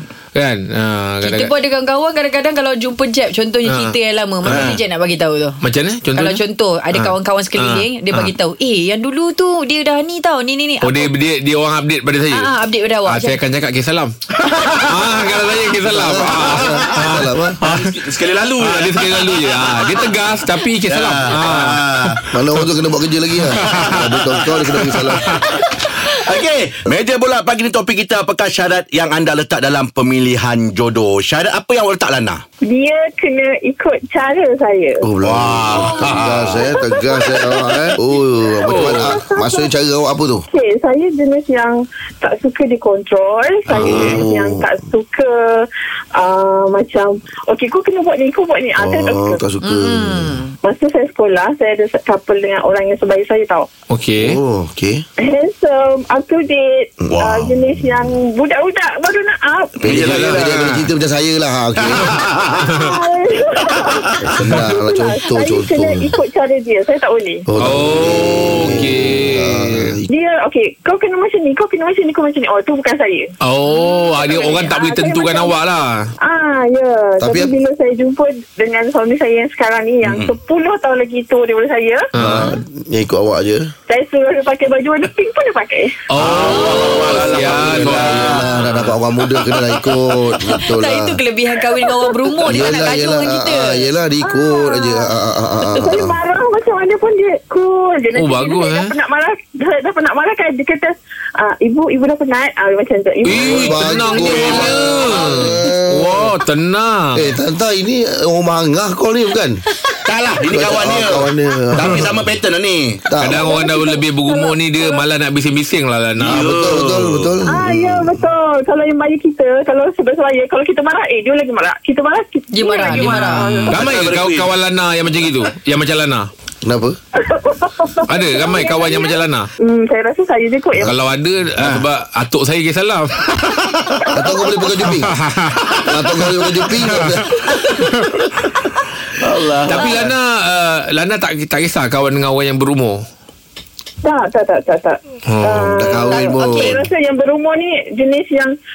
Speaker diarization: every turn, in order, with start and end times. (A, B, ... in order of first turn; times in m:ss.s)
0:00.3-0:01.5 A
0:01.2-0:05.6 B
0:03.7-0:03.9 A
0:04.4-0:04.8 C
0:05.6-0:06.4 A
0:06.1-0:11.1 B
0:06.9-0:08.3 A
0:10.8-0:12.5 A
0:12.3-0:13.4 B
0:13.1-0:18.0 A
0:14.4-0:15.2 C
0:15.9-0:17.6 D
0:16.1-0:20.1 C
0:18.6-0:22.3 A
0:20.9-0:22.3 C
0:22.3-0:25.4 D
0:23.4-0:24.0 A
0:23.6-0:24.6 C
0:24.8-0:25.5 A
0:25.3-0:32.4 C
0:32.6-0:35.1 E
0:35.0-0:40.4 D
0:35.2-0:36.6 C
0:36.6-0:39.7 E
0:38.6-0:39.2 A
0:40.5-0:49.4 E
0:43.7-0:44.7 D
0:43.7-0:44.2 C
0:48.8-0:50.4 D
0:49.6-0:50.5 B
0:50.6-0:53.7 E
0:53.9-0:54.4 A
0:54.2-0:55.0 D
0:55.2-0:59.9 E
0:57.1-0:57.8 C
0:59.8-1:00.9 C
0:59.8-1:02.2 D
0:59.9-1:00.4 A
1:01.8-1:02.8 C
1:02.6-1:02.9 A
1:02.7-1:07.4 E
1:03.7-1:04.6 C
1:04.2-1:06.1 D
1:07.5-1:10.0 D
1:07.6-1:10.0 A
1:10.1-1:15.5 E
1:13.4-1:16.1 A
1:16.2-1:22.1 E
1:17.2-1:17.5 D
1:20.0-1:20.3 C
1:22.1-1:22.5 A
1:22.2-1:23.7 D
1:23.9-1:26.0 E
1:26.1-1:28.9 A
1:26.2-1:28.4 C
1:26.4-1:27.5 B
1:27.4-1:31.2 D
1:30.5-1:33.8 B
1:31.7-1:32.7 E
1:32.5-1:36.1 D
1:34.2-1:45.5 E
1:38.1-1:38.9 A
1:43.2-1:47.4 A
1:43.2-1:46.3 D
1:47.1-1:49.6 D
1:50.0-1:53.0 C
1:50.5-1:52.2 D
1:51.8-1:52.1 A
1:53.1-1:53.4 D
1:53.2-1:56.8 A
1:53.2-1:55.0 E
1:56.2-1:57.3 C
1:56.2-1:58.2 D
1:57.4-2:03.9 E
2:02.5-2:03.5 B
2:03.0-2:06.3 A
2:03.7-2:04.5 C
2:06.6-2:07.0 D
2:07.2-2:10.9 E
2:08.1-2:09.5 A
2:10.8-2:13.2 A
2:11.6-2:11.8 C
2:13.3-2:14.1 C
2:14.1-2:15.1 D
2:14.2-2:14.5 E
2:14.8-2:15.9 A
2:15.8-2:17.3 D
2:16.6-2:18.2 A
2:19.2-2:20.1 C
2:19.7-2:23.0 A
2:24.0-2:28.5 E
2:25.3-2:25.9 A
2:25.6-2:26.8 D
2:26.2-2:26.8 B